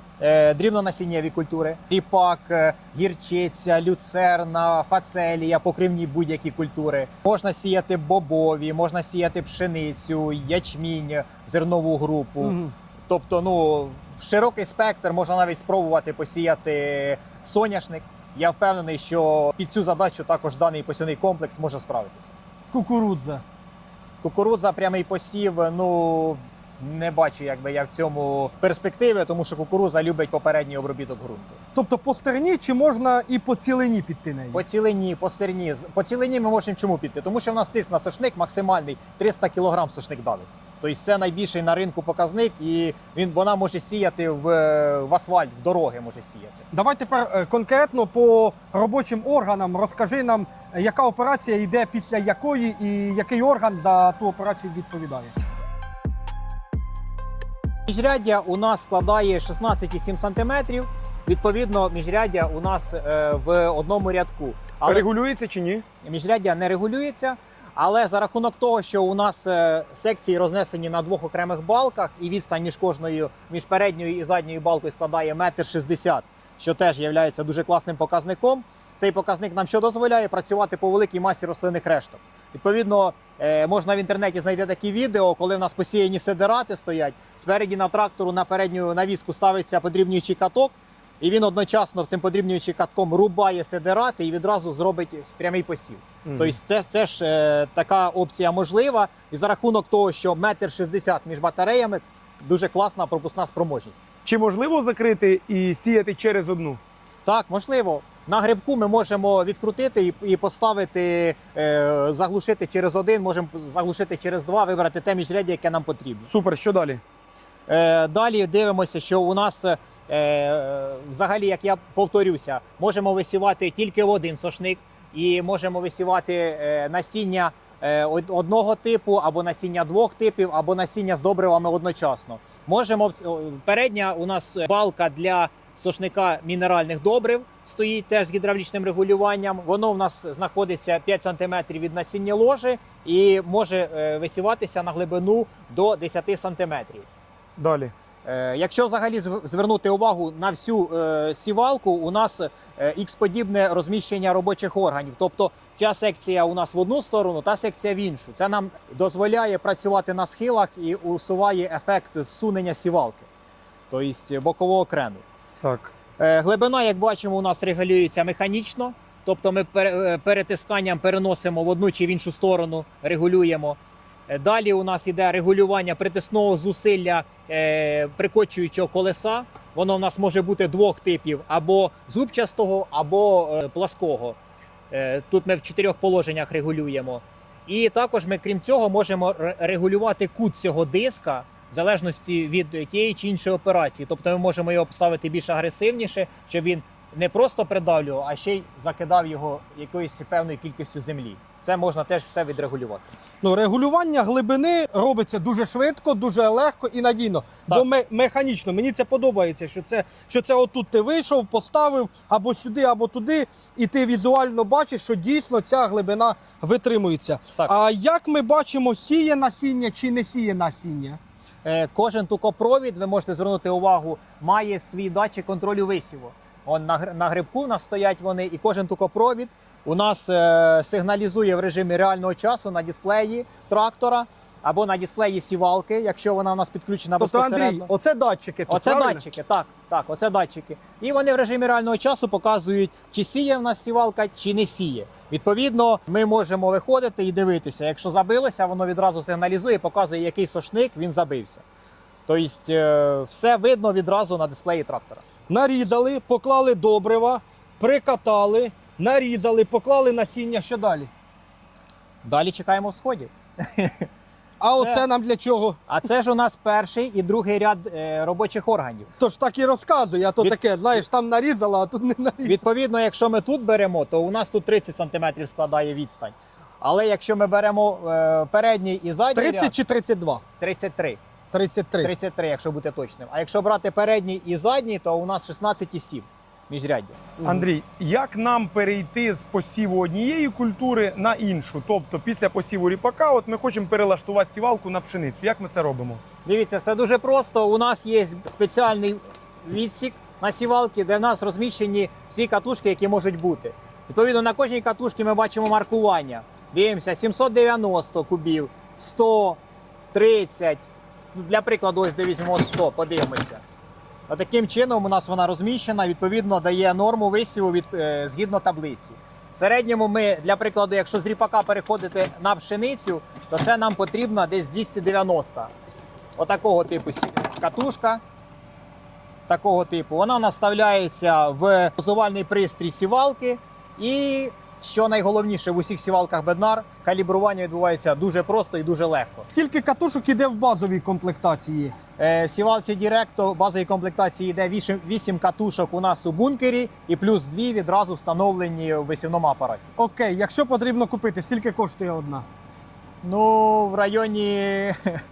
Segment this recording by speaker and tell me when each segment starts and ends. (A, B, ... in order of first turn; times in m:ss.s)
0:00.2-0:12.6 A
0:12.4-0:12.7 B
0:13.1-0:22.3 A
0:22.7-0:23.4 B
0:24.2-0:31.6 A
0:31.8-0:34.6 B
0:34.5-0:46.6 A
0:46.7-0:55.3 B
0:57.9-1:05.1 A
1:04.9-1:05.8 C
1:06.0-1:44.0 A
1:36.3-1:36.6 C
1:44.2-1:46.8 C
1:47.2-1:56.3 A
1:56.3-1:57.0 C
1:57.7-2:27.1 A
2:27.6-2:27.9 C
2:28.2-2:43.3 A
2:43.9-2:45.2 A
2:45.6-2:45.9 C
2:46.2-2:53.8 A
2:54.3-3:04.4 A
3:04.9-3:23.1 A
3:23.4-3:41.2 B
3:41.6-3:57.9 A
3:57.2-3:59.2 B
3:58.7-4:11.6 A
4:12.3-4:15.2 A
4:15.5-4:21.1 B
4:22.2-4:24.1 A
4:24.6-4:25.8 B
4:24.7-4:25.0 A
4:25.9-4:29.1 A
4:29.2-4:32.6 B
4:30.4-4:31.0 A
4:32.4-4:39.8 A
4:39.4-4:40.4 B
4:40.6-4:41.2 A
4:41.5-4:42.1 B
4:42.0-4:47.2 A
4:47.4-4:56.2 C
4:56.4-5:09.6 A
5:10.1-5:13.6 A
5:14.3-5:25.7 A
5:26.4-5:28.2 A
5:29.5-5:39.5 A
5:39.5-5:42.0 B
5:42.2-5:49.9 A
5:50.0-5:52.5 B
5:53.2-5:55.0 A